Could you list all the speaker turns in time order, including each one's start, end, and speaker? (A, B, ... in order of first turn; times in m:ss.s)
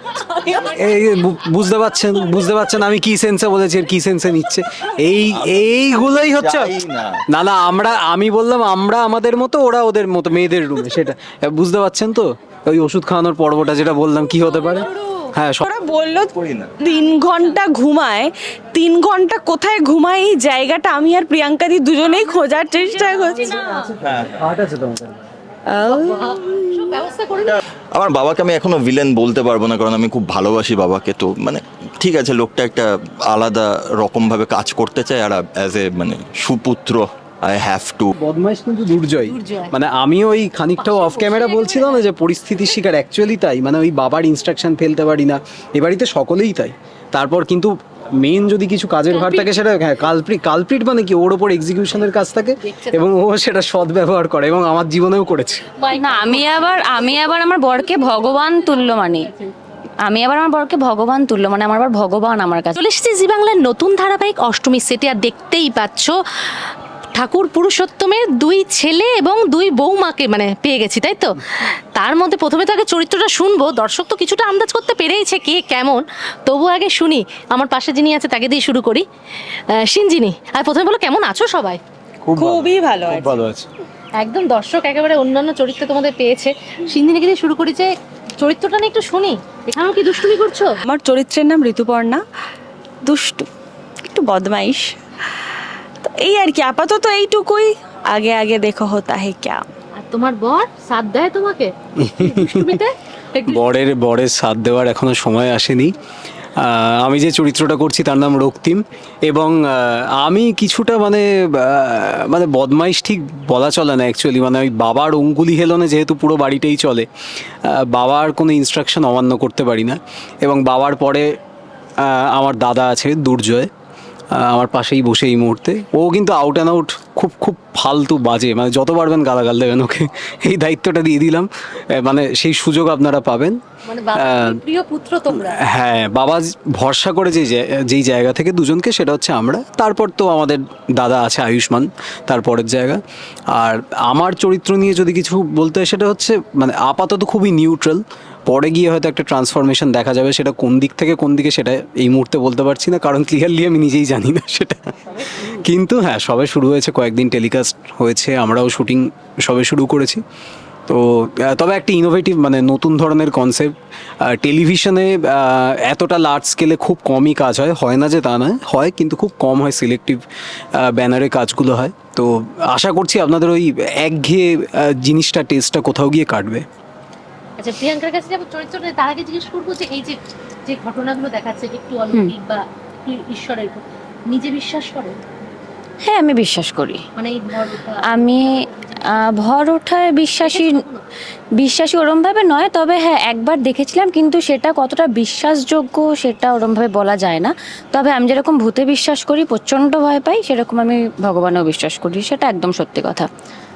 0:00.4-0:00.6 A
0:00.5-0:06.8 B
0:05.3-0:07.2 C
0:07.3-0:15.6 B
0:14.5-0:15.3 A
0:15.6-0:23.6 D
0:16.2-0:16.7 C
0:22.1-0:23.9 A
0:23.6-0:25.2 B
0:24.0-0:24.5 C
0:25.7-0:26.6 E
0:25.8-0:27.6 A
0:27.9-0:38.1 C
0:38.2-0:55.6 B
0:39.2-0:39.8 A
0:40.8-0:42.1 A
0:49.1-0:49.6 A
0:52.6-0:53.1 A
0:55.8-0:56.6 A
0:55.9-0:59.3 E
1:00.0-1:02.8 E
1:02.8-1:06.2 A
1:07.1-1:11.4 A
1:12.0-1:19.0 A
1:19.7-1:21.8 A
1:22.2-1:23.7 B
1:22.4-1:23.4 D
1:24.2-1:30.8 A
1:30.8-1:32.2 D
1:33.0-1:33.5 D
1:34.1-1:35.0 D
1:36.0-1:39.6 D
1:40.0-1:43.6 A
1:42.0-1:42.8 B
1:43.5-1:45.9 B
1:46.6-1:57.1 B
1:57.6-2:01.4 B
2:02.0-2:03.7 B
2:04.3-2:13.6 B
2:13.8-2:15.6 A
2:14.2-2:14.6 B
2:15.3-2:23.0 B
2:23.5-2:40.2 B
2:40.9-2:50.2 B
2:50.8-2:56.7 B
2:57.6-3:05.2 A
3:06.1-3:07.0 E
3:07.2-3:09.4 A
3:08.1-3:08.5 E
3:09.2-3:10.8 E
3:10.4-3:11.0 A
3:11.6-3:23.3 E